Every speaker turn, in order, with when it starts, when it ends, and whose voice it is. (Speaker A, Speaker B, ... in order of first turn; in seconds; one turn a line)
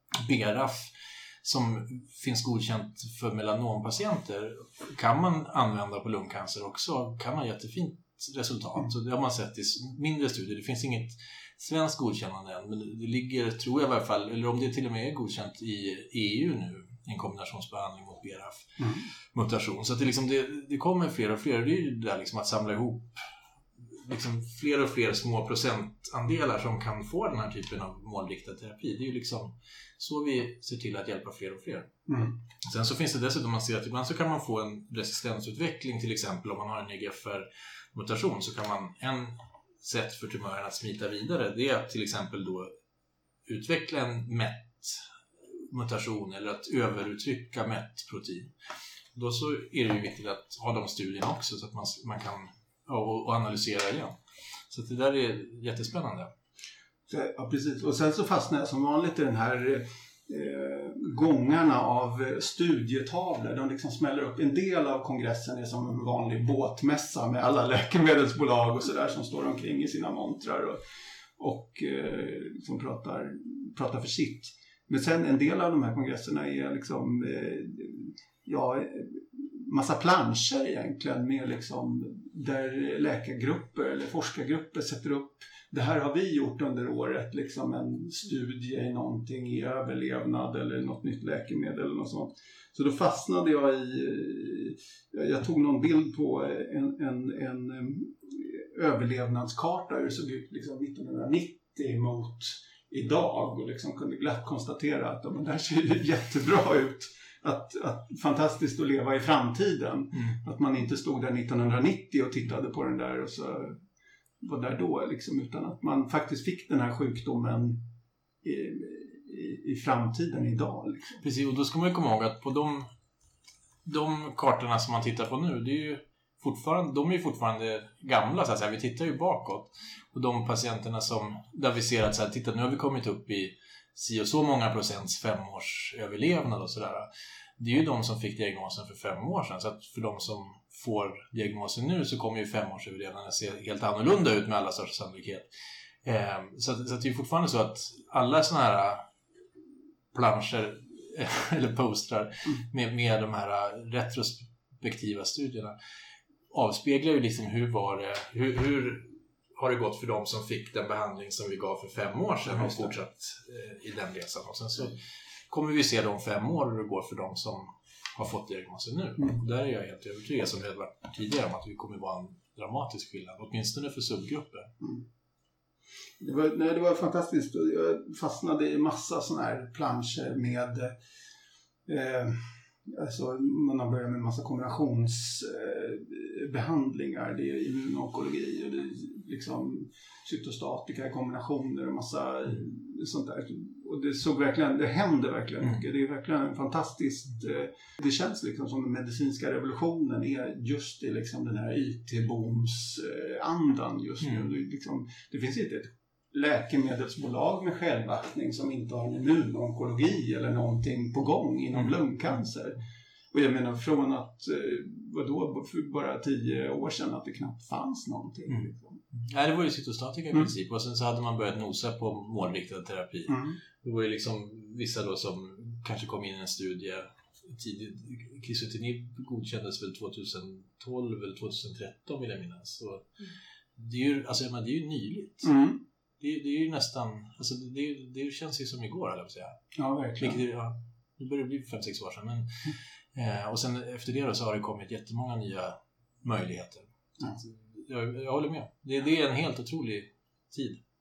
Speaker A: 0.2-18.8
Speaker B: 18.8-19.1
Speaker A: 19.3-23.2
Speaker A: 23.8-31.9
Speaker B: 32.1-32.4
Speaker A: 32.6-42.7
Speaker A: 43.5-48.5
Speaker A: 49.1-54.2
Speaker A: 54.7-56.3
Speaker B: 57.1-70.8
Speaker B: 71.4-113.8
Speaker B: 114.4-117.9
Speaker B: 118.4-121.2
Speaker A: 121.2-122.9
Speaker A: 123.8-145.5
Speaker A: 146.0-149.1
Speaker A: 150.1-155.8
Speaker A: 156.5-174.7
Speaker B: 162.4-163.0
Speaker B: 176.2-180.9
Speaker B: 181.9-219.0
Speaker A: 218.5-233.1
Speaker B: 223.3-223.6
Speaker A: 233.8-235.6
Speaker B: 235.4-235.8
Speaker A: 236.2-239.6
Speaker B: 239.8-240.4
Speaker A: 240.2-250.8